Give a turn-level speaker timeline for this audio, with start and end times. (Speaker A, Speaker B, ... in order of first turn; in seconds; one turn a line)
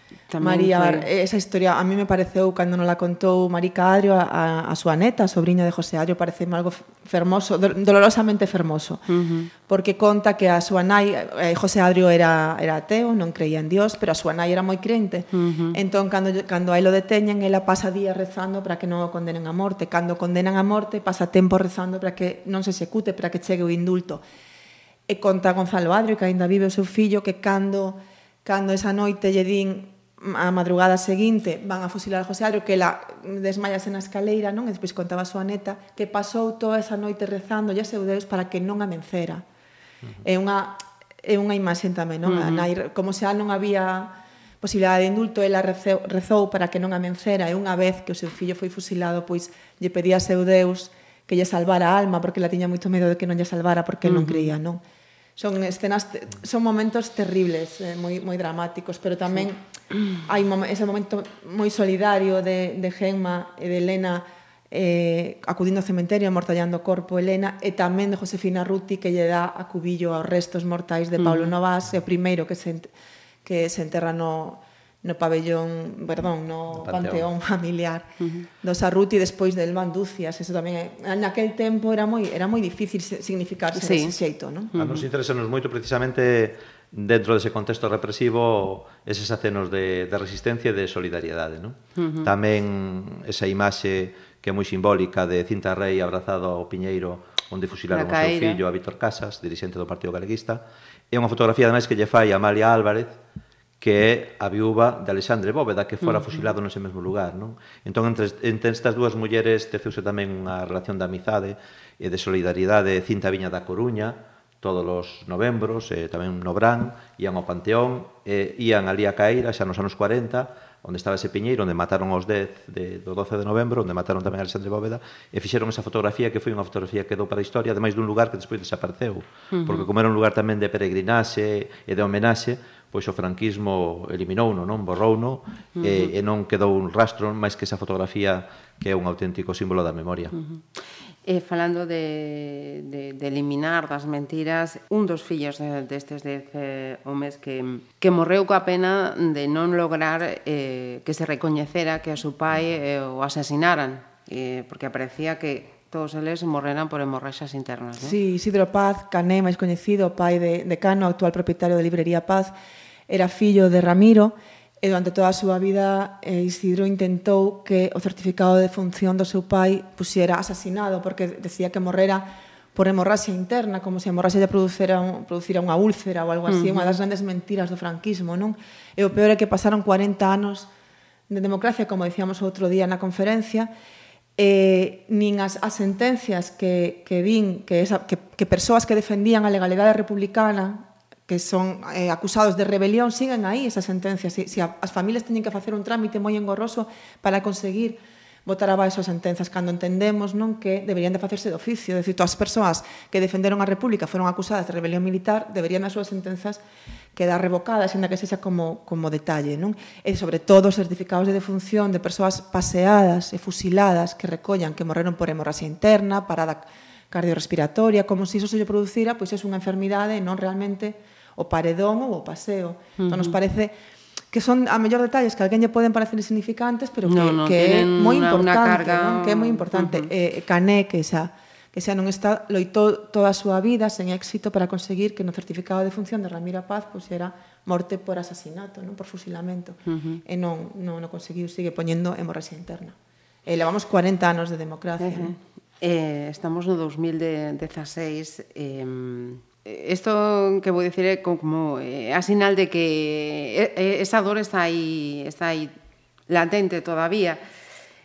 Speaker A: 0.3-1.1
Speaker B: 0.4-9.0
Speaker A: 9.1-9.5
Speaker B: 9.7-24.2
Speaker A: 15.3-15.8
Speaker B: 25.1-39.4
Speaker B: 40.2-54.8
Speaker A: 42.2-42.7
Speaker A: 54.0-54.5
Speaker B: 55.4-59.6
Speaker B: 60.2-72.9
Speaker A: 71.2-71.5
Speaker B: 73.4-78.1
Speaker C: 76.8-77.3
Speaker A: 78.2-78.5
Speaker B: 78.6-84.7
Speaker A: 83.7-84.1
Speaker A: 84.7-85.0
Speaker C: 84.7-103.2
Speaker A: 92.0-92.3
Speaker A: 97.9-98.6
Speaker C: 103.8-140.4
Speaker A: 106.0-106.4
Speaker A: 129.5-129.9
Speaker A: 135.8-136.1
Speaker A: 140.3-140.6
Speaker A: 141.2-158.1
Speaker B: 158.0-162.5
Speaker B: 163.1-180.7
Speaker A: 176.5-177.0
Speaker B: 181.3-183.7
Speaker B: 184.4-206.6
Speaker B: 207.1-223.7
Speaker A: 223.0-223.4
Speaker B: 224.3-242.9
Speaker A: 227.1-230.1
Speaker A: 239.9-240.2
Speaker B: 243.4-245.3
Speaker A: 245.0-255.7
Speaker A: 256.3-257.4